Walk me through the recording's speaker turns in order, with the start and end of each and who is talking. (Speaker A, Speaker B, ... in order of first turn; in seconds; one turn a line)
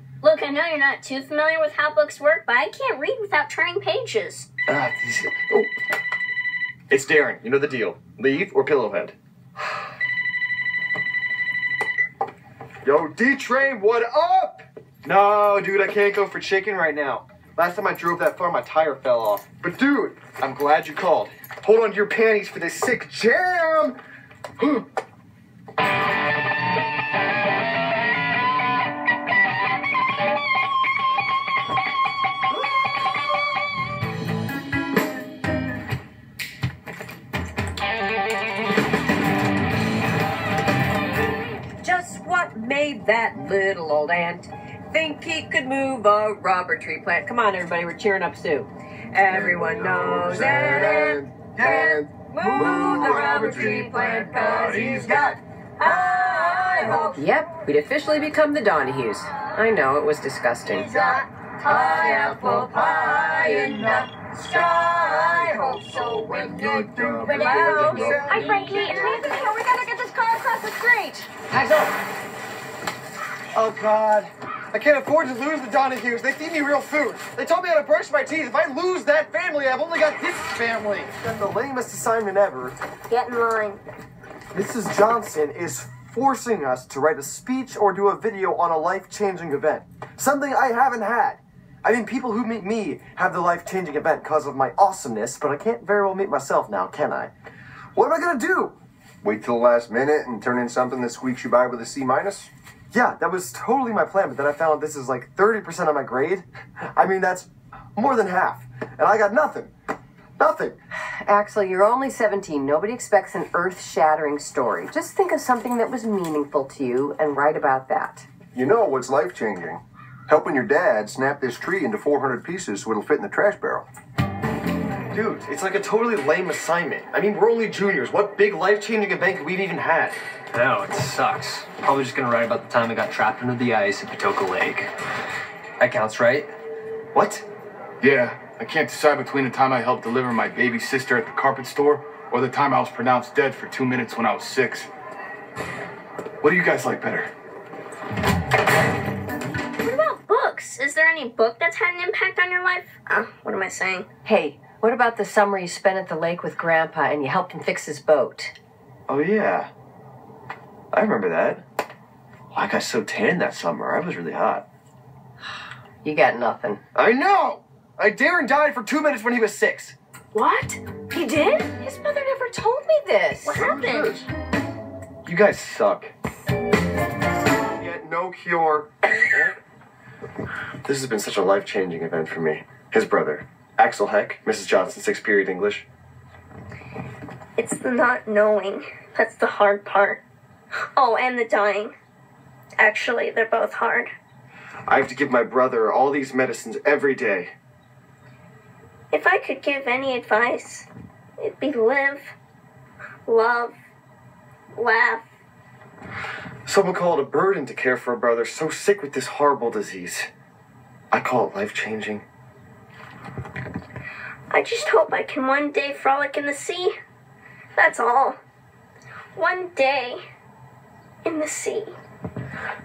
Speaker A: 0.2-4.5
Speaker B: 4.7-5.7
Speaker B: 6.9-9.1
Speaker B: 12.8-24.0
Speaker B: 24.6-24.9
Speaker C: 41.8-71.8
Speaker D: 49.3-55.3
Speaker A: 55.8-57.1
Speaker A: 60.9-61.2
Speaker D: 66.0-68.4
Speaker A: 67.2-69.2
Speaker B: 67.5-69.1
Speaker B: 73.5-82.8
Speaker A: 83.1-83.8
Speaker B: 84.5-97.3
Speaker B: 97.9-98.8
Speaker D: 99.2-102.5
Speaker B: 102.9-109.7
Speaker B: 110.4-110.8
Speaker C: 111.2-118.2
Speaker D: 118.5-123.9
Speaker B: 125.1-130.2
Speaker E: 130.5-134.9
Speaker E: 135.8-136.5
Speaker B: 137.1-137.4
Speaker F: 138.0-144.9
Speaker F: 146.4-147.3
Speaker A: 149.8-154.1
Speaker C: 154.2-158.5
Speaker B: 159.1-159.7
Speaker B: 160.9-161.6
Speaker B: 162.5-164.6
Speaker C: 166.0-166.8
Speaker B: 166.9-169.9
Speaker C: 170.3-173.7
Speaker A: 173.4-174.2
Speaker D: 173.5-174.3
Speaker B: 175.2-176.1
Speaker B: 177.7-179.5
Speaker B: 180.8-185.8
Speaker A: 187.6-190.2
Speaker A: 190.9-191.9
Speaker A: 192.8-194.1
Speaker B: 194.9-197.5
Speaker A: 199.1-200.9
Speaker A: 201.4-202.3
Speaker A: 203.2-203.7
Speaker A: 204.7-205.2
Speaker B: 206.7-210.3
Speaker B: 211.1-212.2
Speaker A: 214.5-216.9
Speaker A: 217.8-218.4
Speaker A: 219.3-220.2
Speaker A: 221.2-221.9